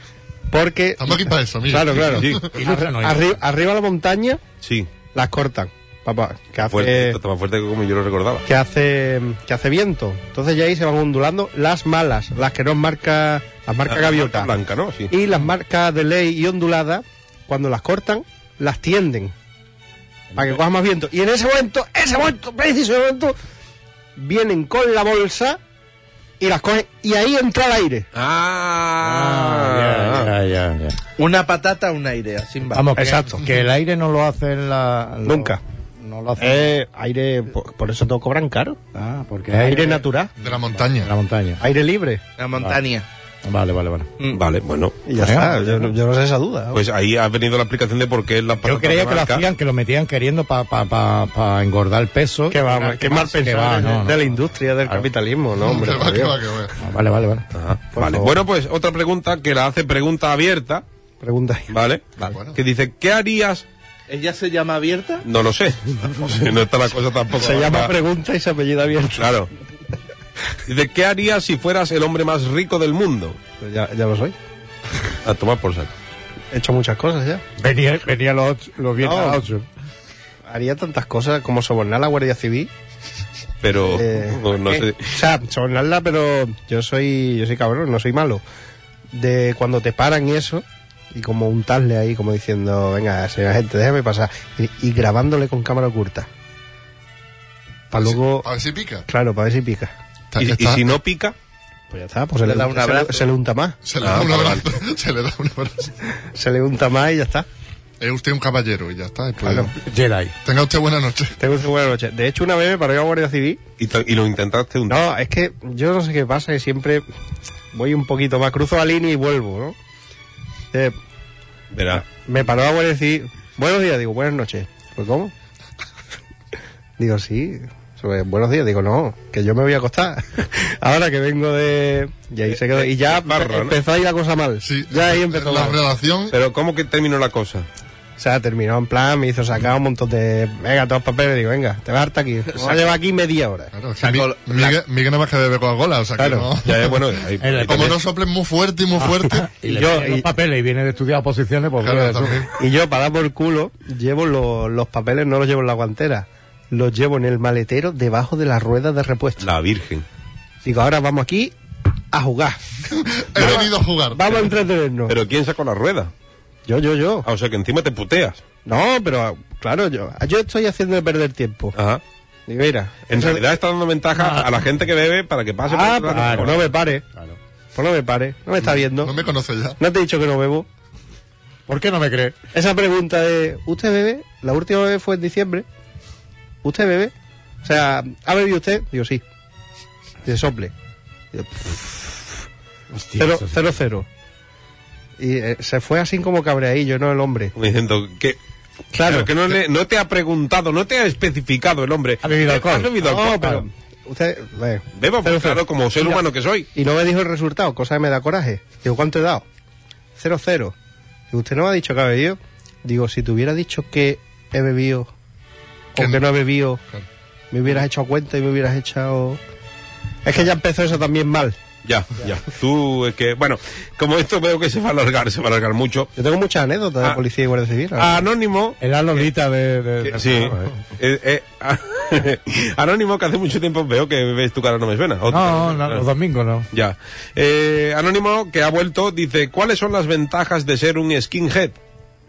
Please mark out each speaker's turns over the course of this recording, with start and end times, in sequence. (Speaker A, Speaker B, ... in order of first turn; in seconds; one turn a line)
Speaker A: 0.5-4.4
Speaker B: 1.0-2.5
Speaker C: 2.1-2.4
Speaker D: 2.5-3.3
Speaker C: 4.6-4.9
Speaker A: 5.1-7.2
Speaker C: 6.7-8.4
Speaker A: 8.4-14.5
Speaker C: 13.9-15.1
Speaker A: 15.1-19.3
Speaker A: 20.4-23.4
Speaker A: 24.1-25.6
Speaker A: 26.4-28.1
Speaker C: 28.1-30.3
Speaker D: 29.0-31.0
Speaker E: 31.2-32.9
Speaker D: 32.7-36.7
Speaker A: 33.0-33.5
Speaker A: 35.2-35.6
Speaker A: 36.4-38.8
Speaker D: 38.9-41.6
Speaker A: 39.6-40.3
Speaker B: 40.4-41.1
Speaker A: 41.6-42.2
Speaker E: 42.4-43.0
Speaker D: 43.4-44.1
Speaker C: 44.3-45.0
Speaker A: 45.0-46.8
Speaker D: 45.2-45.7
Speaker C: 46.7-49.4
Speaker D: 48.6-54.3
Speaker A: 52.5-56.4
Speaker B: 55.6-56.7
Speaker D: 56.8-57.4
Speaker C: 57.5-60.8
Speaker A: 58.0-58.4
Speaker A: 61.2-61.7
Speaker C: 61.7-63.6
Speaker B: 62.2-62.6
Speaker E: 64.1-65.2
Speaker C: 65.2-67.9
Speaker A: 67.3-69.3
Speaker C: 69.2-69.5
Speaker C: 70.7-73.4
Speaker A: 73.6-74.3
Speaker C: 75.2-75.9
Speaker A: 76.5-77.4
Speaker D: 77.6-79.7
Speaker A: 79.0-79.4
Speaker A: 80.5-82.7
Speaker C: 83.6-85.1
Speaker A: 83.8-88.4
Speaker A: 89.1-96.3
Speaker A: 97.9-98.5
Speaker B: 98.0-99.0
Speaker A: 99.1-99.9
Speaker B: 100.3-100.9
Speaker C: 100.4-101.3
Speaker A: 101.9-103.8
Speaker E: 102.4-103.2
Speaker B: 103.8-105.9
Speaker C: 104.0-104.6
Speaker A: 106.3-107.5
Speaker B: 108.0-109.7
Speaker A: 109.4-109.7
Speaker D: 109.8-110.3
Speaker B: 110.4-111.4
Speaker A: 111.4-113.6
Speaker C: 113.8-115.0
Speaker A: 114.9-117.0
Speaker A: 117.7-119.7
Speaker C: 121.7-122.0
Speaker A: 122.0-125.3
Speaker A: 127.0-135.8
Speaker C: 132.5-133.8
Speaker B: 134.6-136.3
Speaker C: 136.3-137.7
Speaker A: 138.2-143.7
Speaker E: 142.5-142.8
Speaker B: 143.7-147.0
Speaker E: 144.0-144.8
Speaker A: 146.2-146.5
Speaker C: 146.6-148.0
Speaker D: 147.4-148.0
Speaker B: 147.6-149.5
Speaker D: 149.0-152.5
Speaker A: 149.6-150.3
Speaker B: 151.8-152.5
Speaker A: 152.6-159.5
Speaker C: 159.4-160.1
Speaker A: 160.6-161.5
Speaker A: 162.1-162.6
Speaker B: 162.9-164.4
Speaker A: 163.3-165.2
Speaker C: 165.1-166.1
Speaker A: 166.7-167.3
Speaker C: 167.2-168.4
Speaker A: 168.7-171.7
Speaker C: 171.7-172.0
Speaker A: 172.5-173.4
Speaker C: 173.1-176.7
Speaker D: 174.2-174.5
Speaker A: 175.7-177.0
Speaker D: 176.1-177.4
Speaker A: 177.7-179.2
Speaker B: 179.0-179.8
Speaker A: 179.8-180.7
Speaker D: 181.7-182.3
Speaker A: 182.5-185.6
Speaker A: 186.6-189.2
Speaker A: 190.2-190.7
Speaker A: 191.3-192.3
Speaker D: 192.9-193.6
Speaker A: 193.2-194.1
Speaker A: 195.2-197.5
Speaker C: 197.6-198.4
Speaker A: 198.9-199.3
Speaker C: 199.0-203.6
Speaker D: 202.2-203.6
Speaker A: 203.0-206.2
Speaker C: 205.0-206.7
Speaker A: 206.7-209.4
Speaker A: 210.2-210.7
Speaker A: 211.3-215.1
Speaker A: 215.9-216.8
Speaker B: 216.0-216.2
Speaker A: 217.5-219.4
Speaker A: 220.2-221.6
Speaker C: 221.8-226.1
Speaker A: 226.2-228.2
Speaker C: 227.9-229.2
Speaker D: 228.8-230.7
Speaker C: 230.0-236.0
Speaker D: 235.3-236.7
Speaker C: 236.7-241.8